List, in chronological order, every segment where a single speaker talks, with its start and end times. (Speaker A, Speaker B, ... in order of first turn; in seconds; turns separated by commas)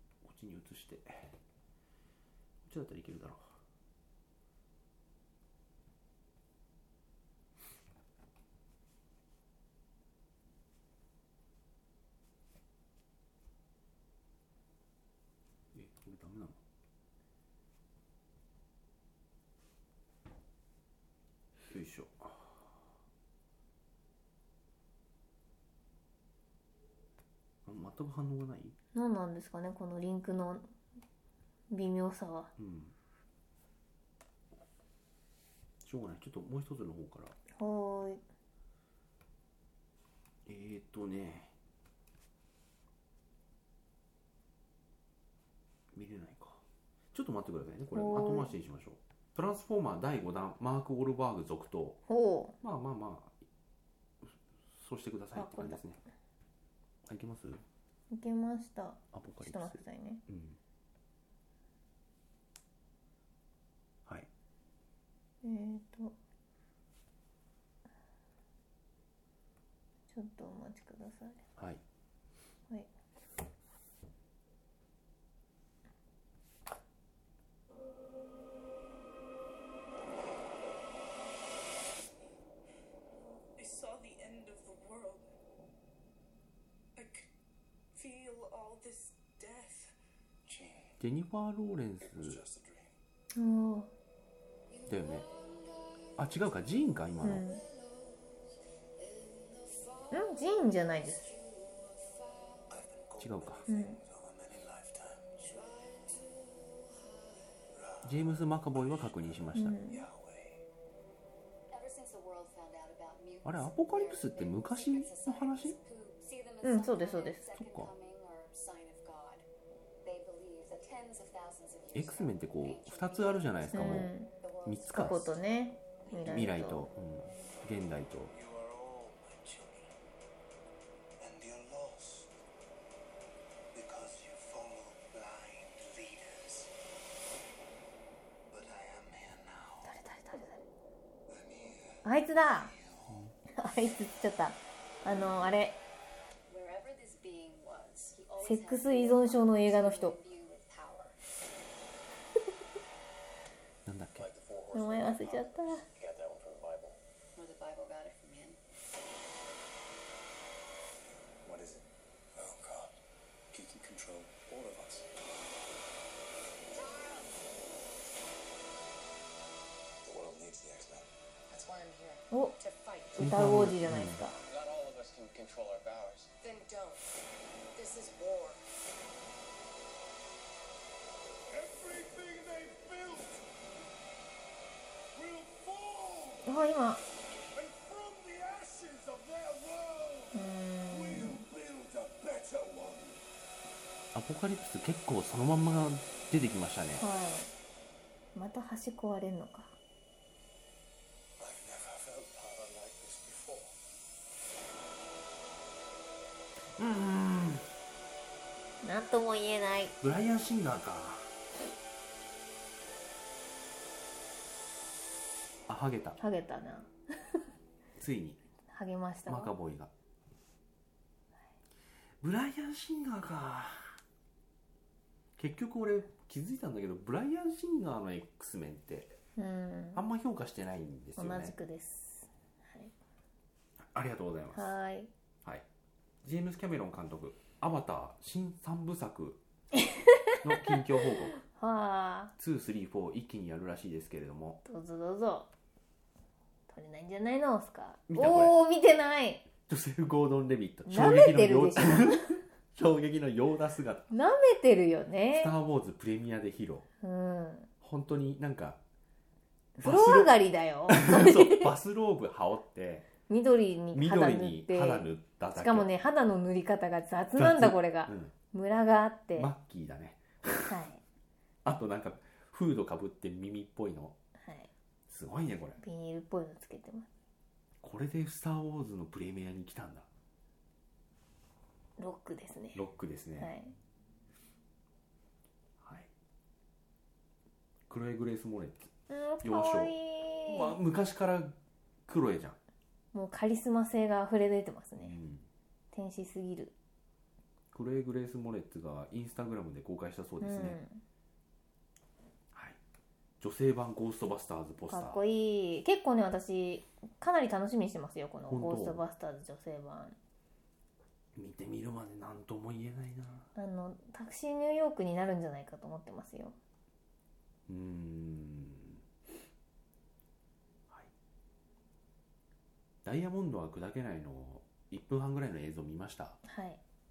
Speaker A: 0.2-1.4, Speaker A: 2.6-3.6, Speaker A: 15.7-16.6, Speaker A: 21.7-22.7, Speaker A: 27.6-28.8, Speaker B: 28.9-30.7, Speaker B: 31.7-32.5, Speaker A: 32.6-32.9, Speaker A: 35.8-37.4, Speaker B: 37.5-38.2, Speaker A: 40.5-41.5, Speaker A: 45.9-52.0, Speaker B: 47.9-48.5, Speaker B: 52.1-52.5, Speaker A: 52.6-53.4, Speaker A: 54.2-56.0, Speaker B: 55.3-55.8, Speaker A: 57.0-57.6, Speaker B: 58.1-60.2, Speaker A: 59.1-60.6, Speaker B: 65.4-66.1, Speaker B: 70.1-71.4, Speaker C: 83.6-85.2, Speaker C: 87.0-87.3, Speaker C: 87.9-89.9, Speaker D: 90.5-91.0, Speaker A: 91.0-92.4, Speaker D: 92.0-92.9, Speaker B: 93.3-93.9, Speaker E: 94.7-96.0, Speaker A: 94.9-95.2, Speaker A: 96.2-97.5, Speaker B: 97.2-97.6, Speaker E: 99.0-100.2, Speaker B: 100.1-101.3, Speaker E: 101.2-102.6, Speaker D: 102.7-105.3, Speaker A: 103.2-103.6, Speaker B: 103.7-104.0, Speaker E: 105.4-107.3, Speaker D: 107.7-110.6, Speaker A: 108.0-109.8, Speaker B: 109.5-110.0, Speaker E: 111.7-119.5, Speaker A: 113.4-115.8, Speaker B: 116.6-117.5, Speaker A: 117.6-117.9, Speaker E: 120.0-125.4, Speaker A: 121.9-124.1, Speaker B: 123.7-124.3, Speaker A: 124.6-125.2, Speaker B: 124.9-126.9, Speaker A: 126.2-128.3, Speaker D: 128.3-129.9, Speaker D: 131.2-132.3, Speaker D: 133.7-136.7, Speaker D: 138.5-139.9, Speaker B: 139.8-140.6, Speaker D: 141.3-143.2, Speaker B: 142.0-142.7, Speaker A: 143.1-143.3, Speaker B: 143.5-145.8, Speaker E: 146.5-151.2, Speaker B: 148.4-150.2, Speaker A: 153.8-154.3, Speaker D: 154.1-157.0, Speaker B: 154.7-155.8, Speaker E: 157.3-158.6, Speaker D: 161.4-162.9, Speaker D: 163.5-165.1, Speaker E: 166.7-167.3, Speaker D: 170.0-171.1, Speaker E: 171.5-173.3, Speaker B: 172.3-172.6, Speaker B: 173.2-174.4, Speaker A: 173.2-174.2, Speaker D: 174.5-176.3, Speaker E: 176.4-177.0, Speaker E: 177.7-178.6, Speaker D: 181.5-183.4, Speaker D: 185.1-186.5, Speaker B: 186.4-187.0, Speaker D: 187.5-190.3, Speaker B: 190.3-191.4, Speaker D: 190.9-193.2, Speaker A: 194.1-197.0, Speaker B: 197.0-197.5, Speaker B: 198.3-199.8, Speaker D: 201.4-203.7, Speaker A: 206.8-207.7, Speaker B: 208.8-210.0, Speaker A: 210.0-211.3, Speaker A: 215.7-216.2, Speaker B: 216.2-217.4, Speaker A: 217.9-218.4, Speaker B: 218.7-219.5, Speaker A: 219.3-219.9, Speaker A: 222.2-224.0, Speaker A: 225.4-229.2, Speaker B: 229.4-230.0, Speaker A: 229.9-231.5, Speaker B: 231.2-232.9, Speaker A: 233.8-234.7, Speaker B: 234.5-235.1, Speaker A: 236.2-239.4, Speaker B: 239.7-240.8, Speaker A: 240.4-241.4, Speaker B: 241.3-242.3, Speaker A: 242.4-244.6, Speaker B: 244.6-245.5, Speaker B: 246.7-249.5, Speaker A: 248.1-248.5, Speaker A: 249.7-254.1, Speaker B: 250.9-252.4, Speaker B: 254.1-255.5, Speaker A: 255.3-256.9, Speaker B: 257.0-257.7, Speaker A: 257.8-258.8, Speaker B: 259.8-261.7, Speaker A: 259.8-260.3, Speaker A: 260.9-263.1, Speaker B: 263.3-269.5, Speaker A: 263.9-265.9, Speaker A: 267.4-268.3, Speaker A: 269.3-270.8, Speaker B: 270.6-271.0, Speaker A: 271.6-274.1, Speaker B: 274.4-274.7, Speaker A: 275.1-275.8, Speaker B: 275.8-277.1, Speaker A: 277.8-280.1, Speaker B: 282.0-282.8, Speaker A: 282.7-283.5, Speaker B: 283.4-283.7, Speaker A: 285.8-286.1, Speaker A: 287.9-289.9, Speaker B: 289.1-290.8, Speaker A: 290.5-291.6, Speaker A: 292.1-292.6, Speaker B: 293.1-295.2, Speaker A: 295.0-295.5, Speaker B: 295.9-296.7, Speaker A: 297.7-300.8, Speaker B: 300.4-301.0, Speaker A: 302.5-302.8, Speaker A: 303.4-305.2, Speaker B: 304.9-310.1, Speaker A: 308.5-309.0, Speaker A: 311.4-313.5, Speaker B: 313.5-316.6, Speaker A: 317.7-319.0, Speaker A: 323.0-326.4, Speaker B: 326.4-326.8